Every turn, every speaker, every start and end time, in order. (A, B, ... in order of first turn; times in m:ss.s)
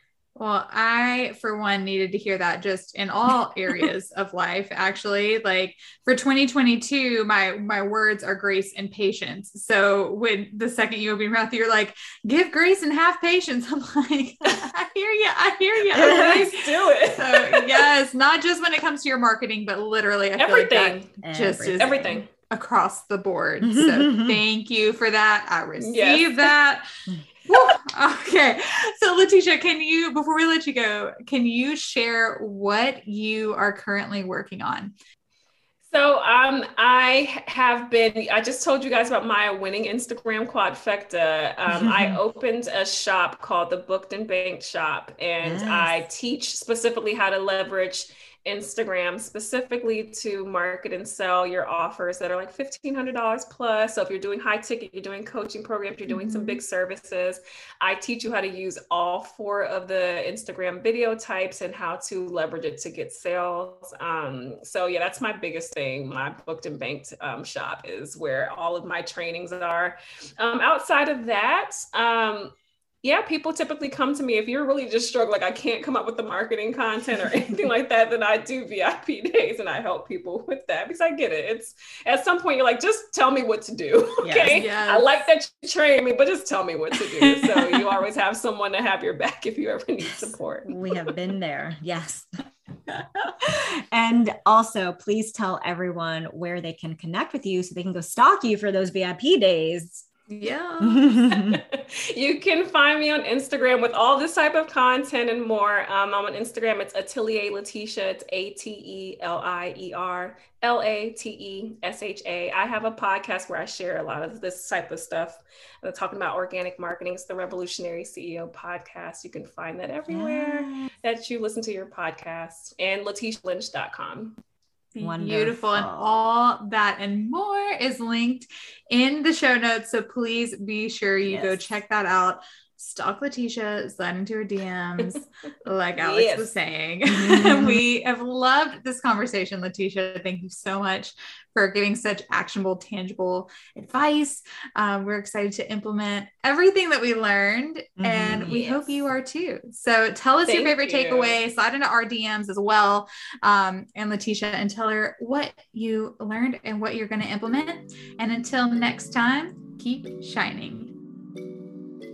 0:00.4-0:26.8 A
0:15.9-0:17.9 B
0:20.4-0:21.1 B
0:21.2-0:22.1 C
0:21.8-0:22.3 B
0:23.6-0:24.4 C
0:25.8-0:26.5 B
0:27.5-0:34.9 A
0:35.9-1:30.7 B
0:41.7-0:42.2 C
0:45.4-0:46.0 C
0:56.1-0:56.6 A
1:24.2-1:24.7 C
1:24.5-1:25.2 A
1:27.1-1:27.8 A
1:30.6-1:32.3 C
1:33.4-1:40.0 C
1:40.3-1:40.8 A
1:40.8-1:41.6 C
1:40.9-2:04.4 B
2:00.1-2:00.9 C
2:04.9-2:40.9 A
2:05.0-2:06.1 C
2:11.2-2:11.6 C
2:16.0-2:16.5 B
2:17.1-2:17.8 C
2:28.0-2:29.0 C
2:30.4-2:31.4 B